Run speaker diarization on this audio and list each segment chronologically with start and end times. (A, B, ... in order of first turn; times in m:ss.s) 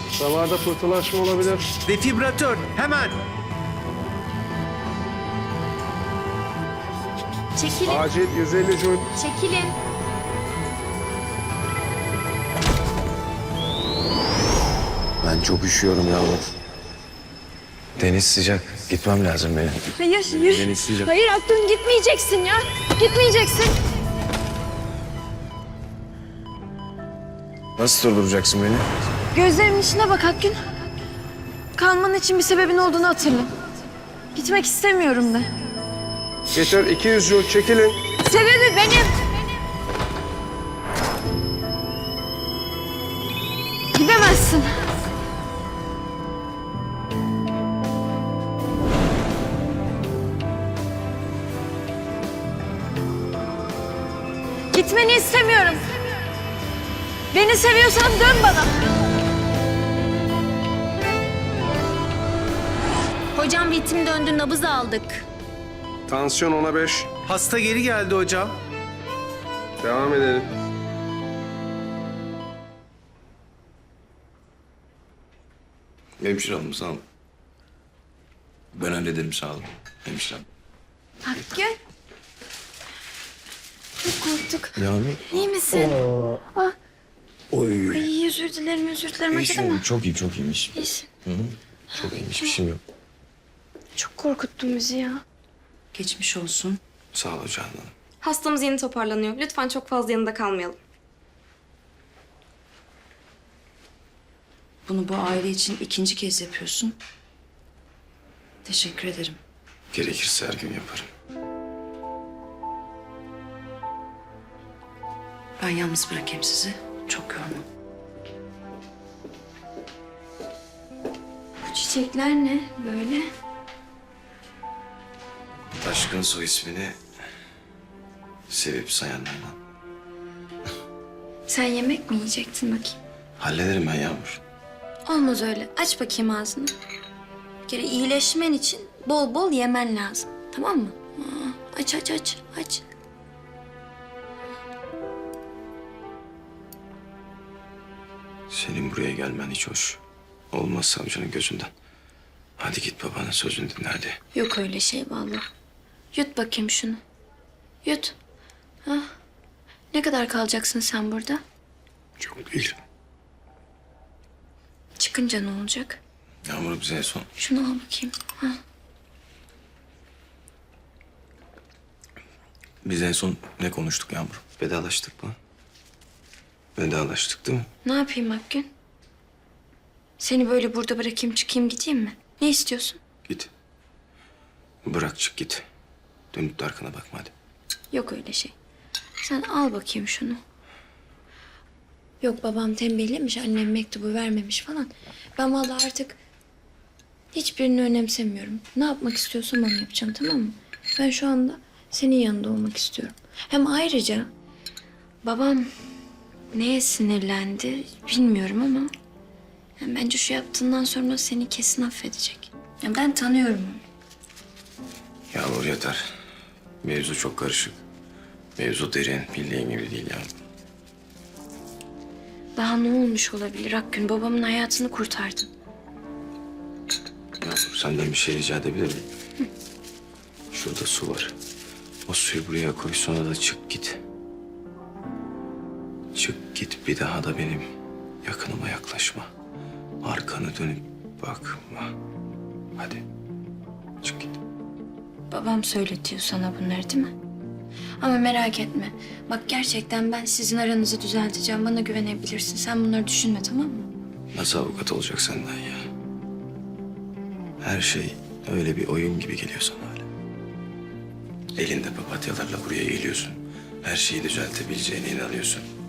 0:00.2-0:01.7 A
0:01.8-0:03.2 B
0:07.6-0:08.1 C
0:07.9-0:09.1 A
0:09.2-0:09.8 C
0:15.2-0:16.5 D
0:18.0-0:21.1 D
0:20.0-0:23.8 E
0:27.8-0:28.9 D
0:29.3-0:30.6 E
0:31.8-0:33.5 E
0:34.3-0:35.5 E
0:36.5-0:38.0 A
0:38.2-0:39.2 E
0:43.9-0:44.7 E
0:54.7-0:55.8 E
0:57.3-0:58.8 E
1:03.4-1:05.2 C
1:06.1-1:07.2 A
1:07.2-1:08.6 B
1:09.8-1:10.5 A
1:16.2-1:17.0 D
1:18.7-1:20.5 D
1:21.2-1:21.8 E
1:24.0-1:26.0 E
1:24.8-1:25.5 D
1:27.5-1:28.1 D
1:27.9-1:29.8 E
1:29.3-1:32.8 D
1:30.8-1:31.1 E
1:34.0-1:35.2 E
1:35.9-1:36.8 F
1:37.1-1:37.9 D
1:38.2-1:40.8 G
1:44.9-1:47.0 F
1:48.6-1:49.4 F
1:49.9-1:51.1 D
1:55.6-1:57.6 F
2:01.6-2:03.3 E
2:05.8-2:07.0 D
2:08.5-2:09.6 D
2:11.5-2:13.0 E
2:13.4-2:14.4 D
2:15.1-2:16.7 E
2:17.7-2:22.8 E
2:28.5-2:30.0 D
2:30.5-2:31.7 D
2:32.6-2:34.2 D
2:34.3-2:35.5 E
2:36.1-2:37.0 E
2:37.8-2:38.2 E
2:38.9-2:39.1 E
2:39.9-2:41.4 E
2:42.2-2:42.8 D
2:45.0-2:46.0 E
2:46.4-2:47.3 D
2:47.4-2:48.6 E
2:52.8-2:55.4 D
2:56.8-2:57.7 D
2:57.8-2:58.7 E
3:00.2-3:03.0 E
3:04.8-3:05.7 D
3:06.3-3:07.3 D
3:07.9-3:08.5 E
3:09.2-3:10.4 E
3:12.2-3:16.2 E
3:17.3-3:24.3 E
3:25.2-3:25.7 E
3:26.5-3:28.9 E
3:29.8-3:33.8 E
3:35.3-3:36.1 D
3:36.8-3:37.8 D
3:38.6-3:40.3 D
3:42.6-3:45.5 E
3:47.4-3:49.1 D
3:50.5-3:51.3 D
3:52.0-3:54.0 D
3:56.1-3:57.7 D
3:58.2-3:59.3 D
4:00.0-4:01.9 D
4:02.8-4:03.0 D
4:04.0-4:04.4 D
4:05.3-4:07.1 E
4:08.0-4:13.9 E
4:14.3-4:15.9 D
4:17.6-4:20.1 D
4:21.6-4:25.7 D